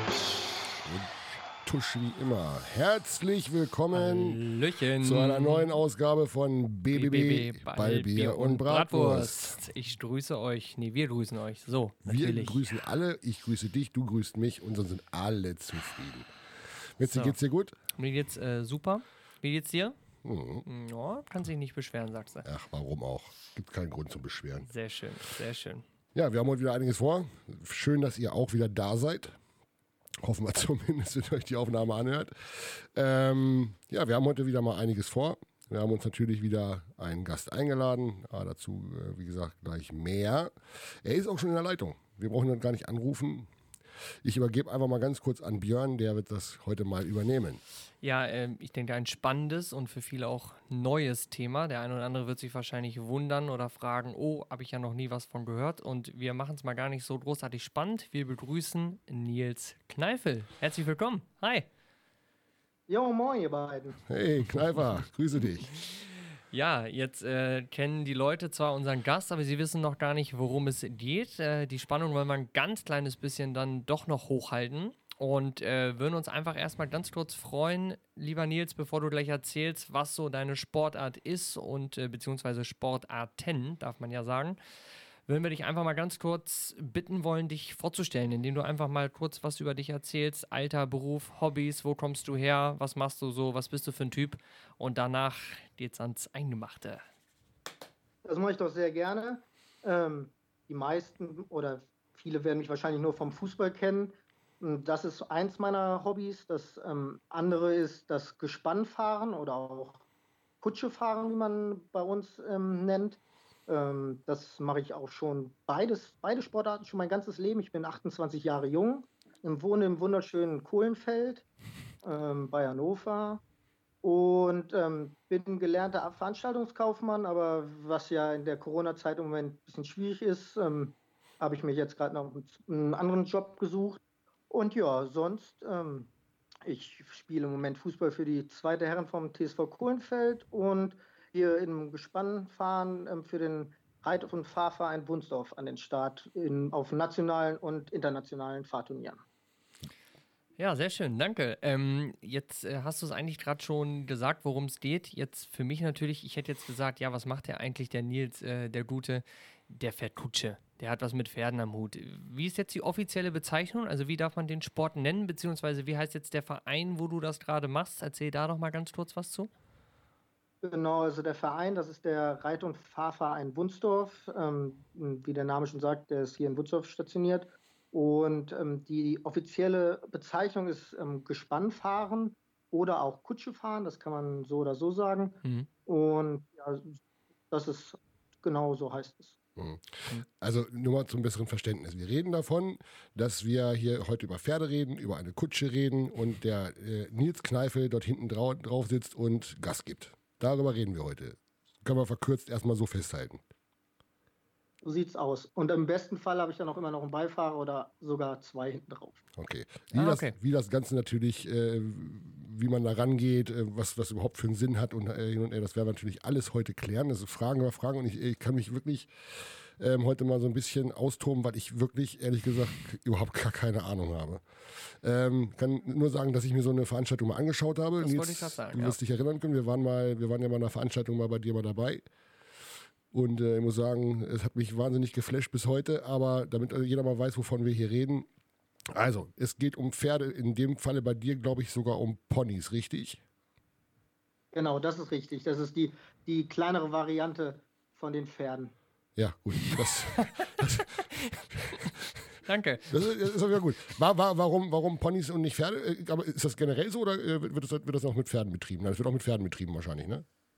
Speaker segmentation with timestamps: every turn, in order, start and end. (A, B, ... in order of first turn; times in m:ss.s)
0:00.8-0:04.4 A
0:03.9-0:05.7 B
0:05.0-0:09.6 A
0:06.9-0:12.6 B
0:12.0-0:16.3 A
0:17.0-0:17.8 A
0:17.0-0:17.4 B
0:17.9-0:20.0 B
0:20.2-0:20.6 A
0:20.7-0:22.5 B
0:22.4-0:24.7 A
0:24.6-0:25.8 B
0:26.2-0:29.4 A
0:30.2-0:43.5 A
0:44.2-0:47.6 A
0:48.0-1:01.7 B
1:02.9-1:04.0 C
1:04.1-1:05.7 A
1:06.5-1:24.6 B
1:25.3-1:37.0 B
1:38.2-1:50.0 C
1:50.6-2:01.5 C
2:02.0-2:03.4 C
2:04.0-2:16.1 C
2:16.7-2:29.2 C
2:30.6-2:49.5 B
2:50.6-3:09.4 C
3:09.6-3:23.4 A
3:24.8-3:29.2 C
3:29.4-3:52.0 A
3:29.9-3:30.3 B
3:48.0-3:49.0 B
3:53.1-3:58.3 A
3:58.9-4:03.2 A
4:04.5-4:08.7 C
4:09.2-4:11.8 A
4:09.9-4:10.7 B
4:12.4-4:13.1 B
4:12.9-4:20.3 A